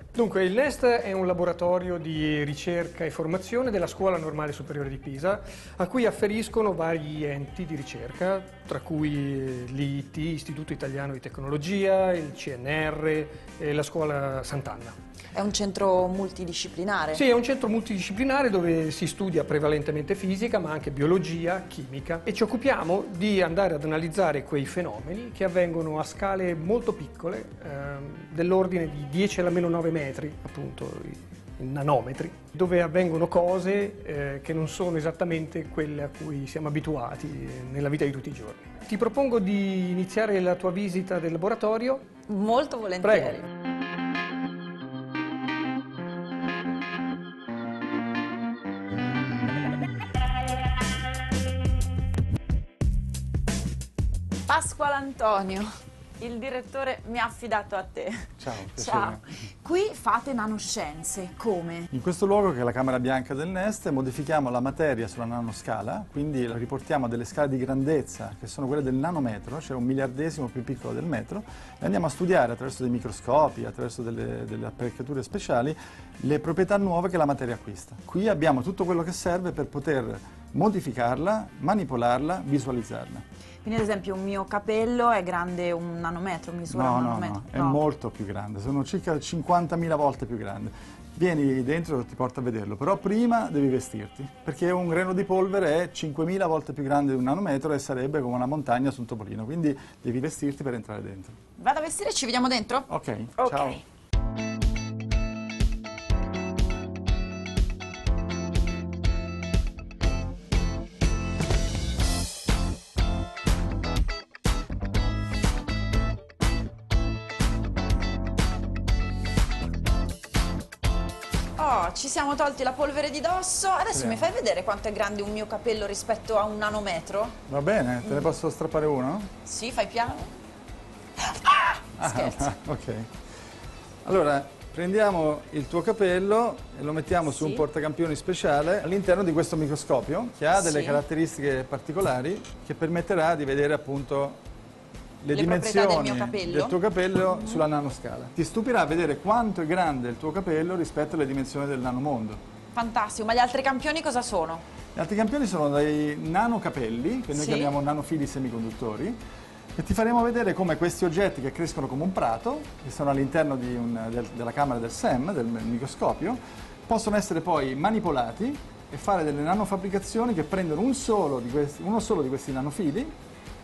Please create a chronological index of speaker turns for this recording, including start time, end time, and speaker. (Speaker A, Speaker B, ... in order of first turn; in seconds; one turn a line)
Speaker A: 0.1-14.9
Speaker B: 15.3-17.2
Speaker A: 17.1-42.0
Speaker B: 42.3-43.4
Speaker A: 43.0-43.4
Speaker B: 54.5-61.9
Speaker C: 58.4-59.2
Speaker C: 61.9-83.2
Speaker B: 83.6-87.8
Speaker C: 86.7-101.4
Speaker B: 101.6-103.8
Speaker C: 102.9-103.8
Speaker B: 121.6-127.4
Speaker C: 123.9-124.3
Speaker C: 127.5-129.3
Speaker B: 129.4-130.3
Speaker B: 131.2-132.5
Speaker C: 132.0-133.1
Speaker C: 134.0-144.4
Speaker B: 137.3-137.6
Speaker B: 140.6-141.0
Speaker C: 145.2-152.4
Speaker B: 145.3-146.8
Speaker B: 152.7-154.6
Speaker C: 154.9-159.2
Speaker B: 157.3-157.7
Speaker C: 159.8-173.1